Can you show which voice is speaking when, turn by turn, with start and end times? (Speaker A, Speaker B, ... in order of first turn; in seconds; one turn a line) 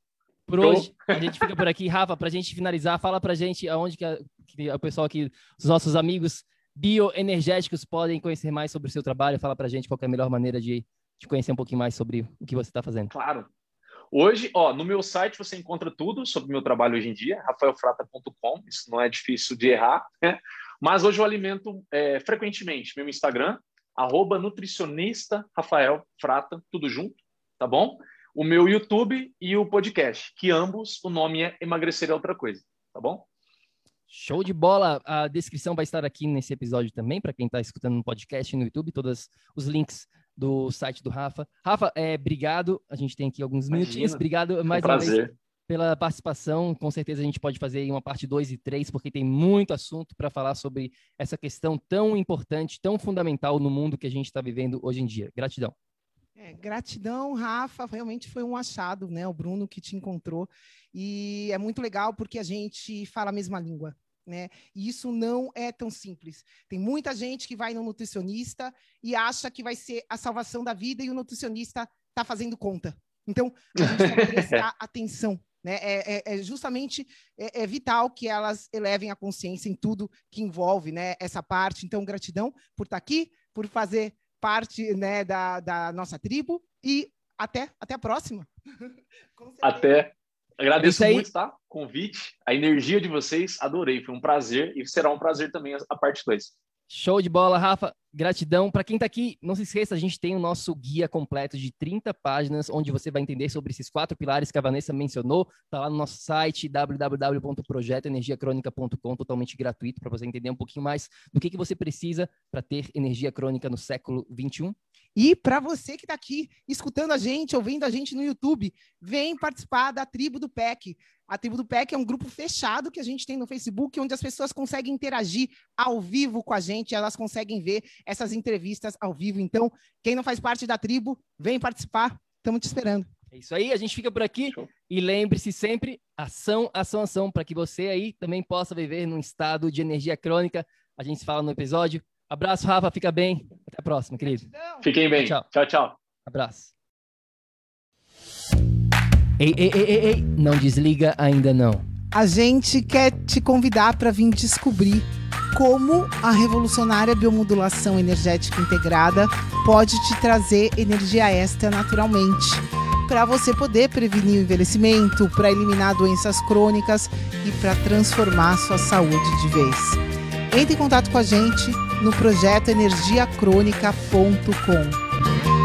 Speaker A: 0.5-13.1
Speaker B: 0.6-1.5
Speaker B: 13.1-13.5
Speaker B: 14.1-33.2
Speaker A: 34.1-55.8
Speaker B: 43.7-45.3
Speaker C: 56.4-89.9
Speaker B: 73.8-74.6
Speaker B: 89.6-96.5
Speaker A: 90.8-91.3
Speaker A: 96.9-114.8
Speaker C: 115.2-133.1
Speaker A: 133.3-144.5
Speaker C: 144.3-144.8
Speaker B: 144.8-146.0
Speaker A: 145.2-145.4
Speaker A: 146.3-146.7
Speaker A: 149.4-151.8
Speaker C: 152.1-170.0
Speaker C: 170.5-175.0